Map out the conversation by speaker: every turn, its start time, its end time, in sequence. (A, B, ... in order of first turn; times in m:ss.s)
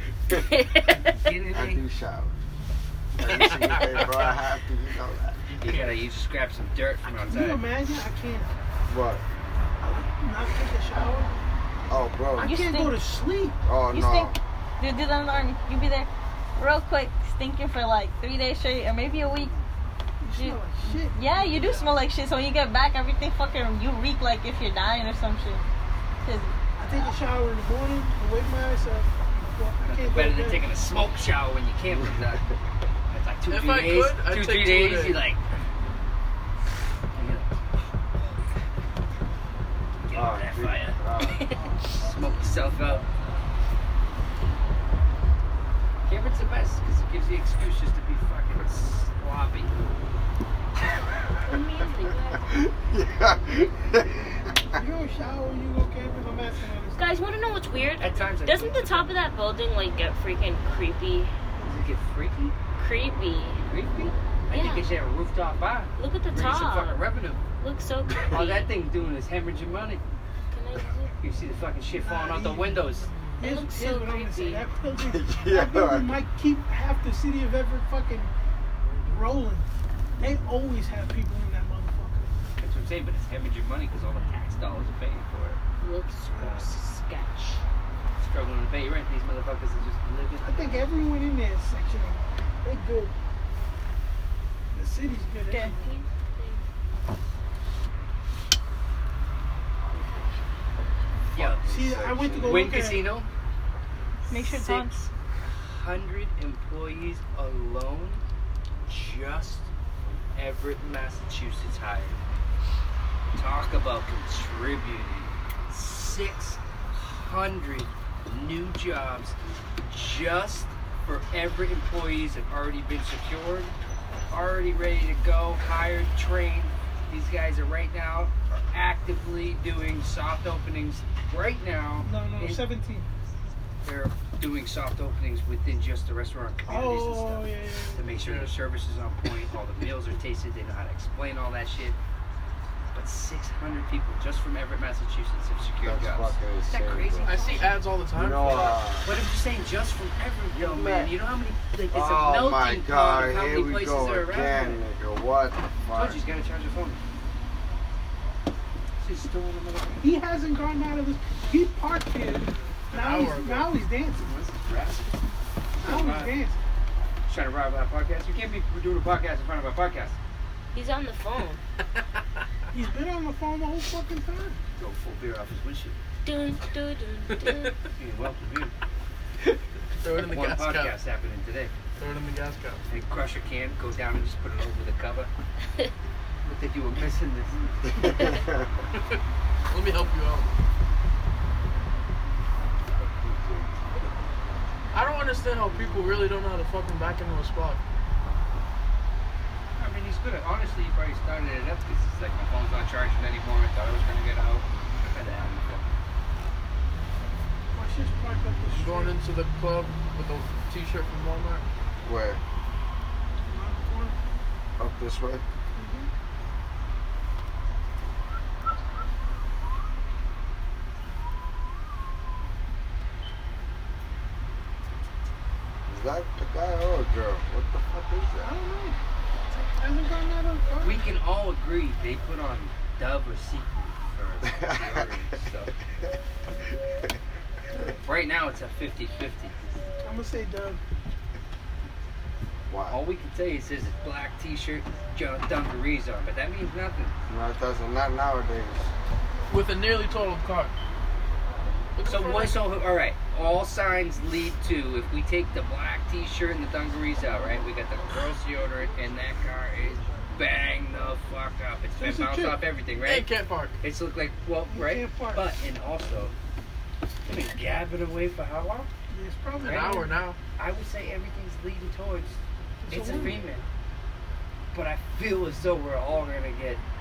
0:00.5-0:01.1 A
0:00.8-0:01.8 B
0:01.5-0:02.3 C
0:03.2-0:05.4 C
0:03.4-0:04.0 D
0:05.6-0:07.6 B
0:07.1-0:08.5 E
0:08.9-0:09.2 C
0:09.8-0:11.4 E
0:11.9-0:12.6 C
0:12.4-0:13.6 E
0:12.4-0:13.1 F
0:13.6-0:14.4 C
0:13.9-0:19.5 F
0:20.2-0:21.3 E
0:20.3-0:25.6 F
0:21.3-0:22.0 B
0:26.2-0:26.5 F
0:26.8-0:30.6 E
0:29.8-0:32.4 B
0:33.1-0:35.4 B
0:33.5-0:35.2 D
0:37.1-0:37.6 B
0:40.0-0:41.0 B
0:40.1-0:41.6 C
0:41.2-0:41.6 A
0:41.9-0:43.0 B
0:46.0-0:49.8 B
0:51.4-0:52.6 A
0:52.4-0:54.8 C
0:54.7-0:57.0 E
0:57.0-1:01.3 A
0:58.0-0:59.1 B
1:01.6-1:02.6 B
1:02.8-1:03.6 A
1:03.6-1:07.4 B
1:04.5-1:04.9 A
1:06.0-1:07.0 A
1:07.6-1:08.7 A
1:08.3-1:10.0 B
1:10.5-1:11.1 A
1:11.2-1:13.1 B
1:11.9-1:18.3 E
1:13.4-1:14.7 A
1:15.0-1:16.2 C
1:19.1-1:19.7 E
1:20.2-1:22.3 E
1:22.6-1:25.6 B
1:25.8-1:27.6 A
1:26.3-1:26.6 E
1:28.2-1:31.0 B
1:30.4-1:33.1 E
1:34.7-1:35.8 E
1:35.5-1:35.8 F
1:35.6-1:36.6 A
1:41.3-1:41.6 B
1:41.3-1:42.8 C
1:41.7-1:43.1 E
1:42.4-1:43.3 B
1:44.3-1:45.1 F
1:44.5-1:44.8 B
1:45.4-1:48.2 B
1:48.8-1:49.7 B
1:50.3-1:52.2 B
1:53.3-2:03.7 B
2:04.3-2:12.6 B
2:12.0-2:13.1 E
2:13.8-2:22.0 B
2:16.7-2:18.1 E
2:18.2-2:18.5 D
2:22.9-2:27.7 B
2:25.8-2:27.4 C
2:27.2-2:28.8 D
2:27.3-2:27.7 E
2:28.1-2:29.1 C
2:29.0-2:34.8 B
2:30.5-2:31.1 C
2:31.9-2:36.2 C
2:35.9-2:37.0 B
2:39.0-2:40.1 B
2:40.0-2:44.3 E
2:42.9-2:43.7 D
2:44.2-2:45.2 B
2:45.7-2:46.4 B
2:45.8-2:46.6 E
2:47.3-2:50.2 B
2:50.7-2:51.6 A
2:52.7-2:54.6 E
2:54.8-2:56.0 B
2:56.2-2:57.7 A
2:57.3-2:57.7 D
2:57.9-2:58.7 B
2:59.5-3:00.9 D
3:00.1-3:01.7 B
3:02.0-3:02.8 D
3:02.9-3:05.3 B
3:06.4-3:07.6 B
3:07.9-3:08.7 C
3:08.9-3:09.2 D
3:09.7-3:10.5 D
3:13.0-3:14.0 C
3:14.9-3:17.8 D
3:19.8-3:25.9 B
3:27.7-3:29.2 E
3:28.7-3:31.6 D
3:32.0-3:32.4 C
3:33.5-3:34.2 E
3:34.8-3:35.4 C
3:35.8-3:36.1 E
3:45.9-3:48.5 C
3:48.4-3:49.0 E
3:49.5-3:51.0 E
3:50.8-3:55.7 B
3:54.4-3:55.1 C
3:58.0-3:59.7 B
4:00.0-4:00.8 E
4:02.7-4:03.0 C
4:02.9-4:07.1 B
4:07.3-4:08.9 C
4:09.5-4:10.7 D
4:12.0-4:12.6 D
4:12.0-4:23.3 B
4:22.0-4:22.6 E
4:23.0-4:23.8 D
4:23.8-4:26.3 B
4:24.7-4:25.4 E
4:27.2-4:28.9 B
4:29.1-4:30.2 E
4:29.6-4:30.0 B
4:29.6-4:30.4 D
4:30.6-4:33.6 B
4:32.8-4:33.5 E
4:34.7-4:36.8 B